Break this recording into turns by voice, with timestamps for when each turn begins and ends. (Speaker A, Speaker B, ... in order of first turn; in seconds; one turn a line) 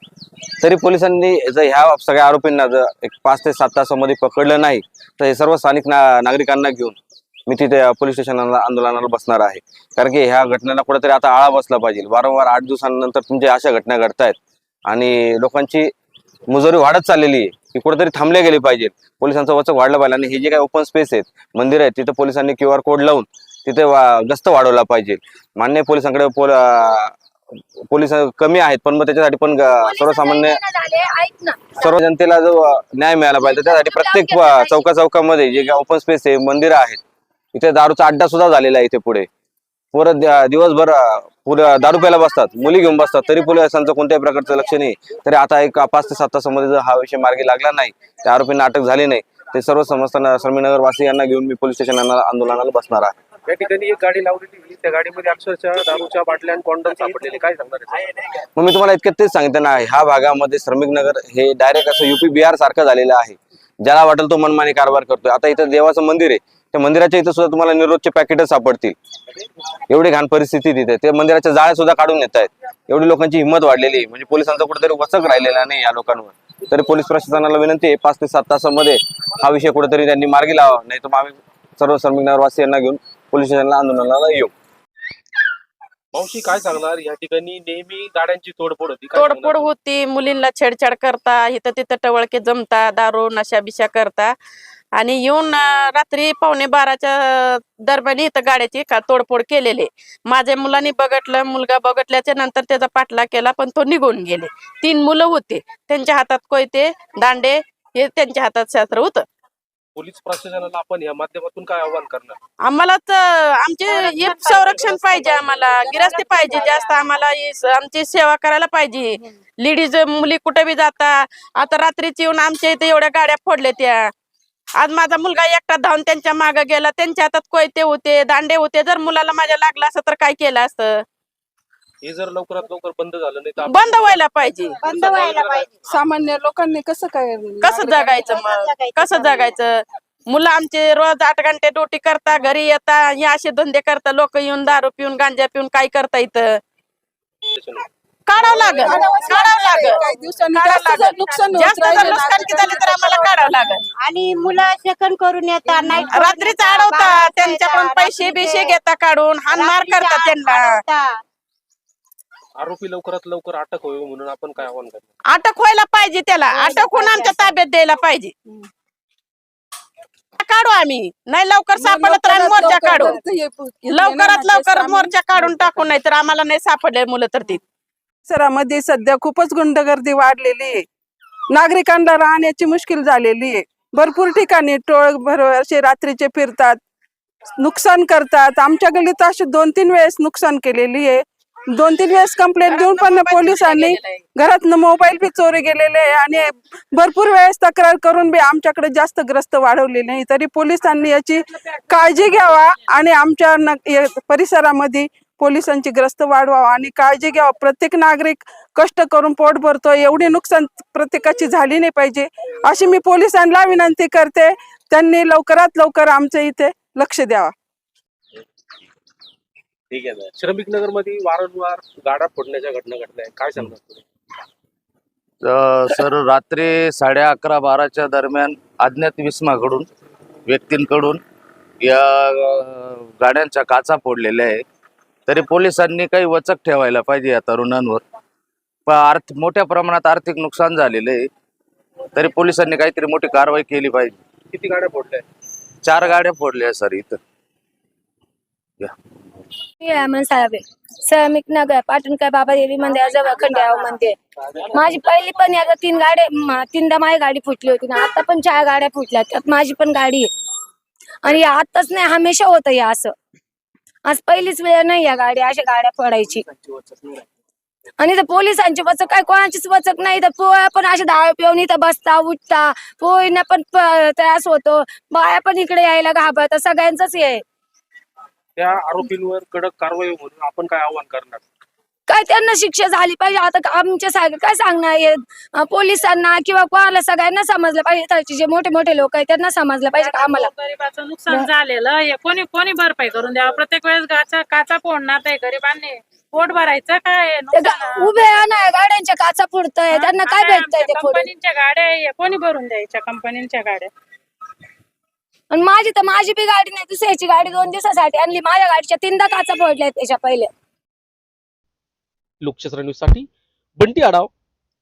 Speaker A: 0.6-14.4
Speaker A: 14.9-15.9
Speaker A: 16.5-27.1
Speaker A: 27.9-30.6
Speaker B: 29.7-31.9
Speaker A: 31.8-37.0
Speaker B: 33.4-34.8
Speaker A: 37.5-39.3
Speaker A: 39.9-53.1
Speaker C: 53.5-57.9
Speaker D: 57.0-57.7
Speaker A: 58.6-69.0
Speaker A: 69.9-84.5
Speaker C: 86.2-89.7
Speaker E: 89.2-94.3
Speaker E: 95.0-109.2
Speaker C: 110.0-112.4
Speaker E: 112.7-124.1
Speaker C: 113.9-115.8
Speaker F: 116.0-117.1
Speaker E: 124.8-131.0
Speaker C: 132.0-134.2
Speaker E: 133.6-134.8
Speaker F: 134.8-135.8
Speaker C: 134.8-135.7
Speaker G: 135.9-138.2
Speaker E: 137.6-146.6
Speaker F: 137.9-139.6
Speaker C: 147.6-147.8
Speaker E: 148.3-153.9
Speaker F: 148.5-149.3
Speaker G: 148.7-153.6
Speaker F: 151.9-158.8
Speaker E: 156.0-160.8
Speaker F: 159.5-161.2
Speaker C: 162.6-165.1
Speaker E: 165.3-168.3
Speaker F: 166.5-167.6
Speaker E: 170.4-173.2
Speaker G: 171.7-176.0
Speaker C: 172.7-173.0
Speaker E: 173.9-177.6
Speaker G: 178.3-180.8
Speaker G: 181.5-186.8
Speaker G: 187.6-217.5
Speaker E: 192.7-194.2
Speaker C: 220.0-224.0
Speaker H: 225.4-229.9
Speaker H: 230.5-231.2
Speaker H: 231.8-234.6
Speaker H: 235.3-238.0
Speaker H: 238.9-241.3
Speaker H: 242.2-244.2
Speaker C: 244.5-245.2
Speaker H: 245.8-247.2
Speaker B: 249.8-254.2
Speaker I: 253.0-253.9
Speaker B: 254.7-260.3
Speaker B: 261.2-263.1
Speaker B: 264.1-266.5
Speaker B: 268.0-277.4
Speaker C: 278.6-281.4
Speaker B: 282.1-290.5
Speaker I: 290.0-298.5
Speaker B: 297.5-301.3
Speaker I: 299.9-303.9
Speaker B: 305.5-310.5
Speaker D: 312.4-314.3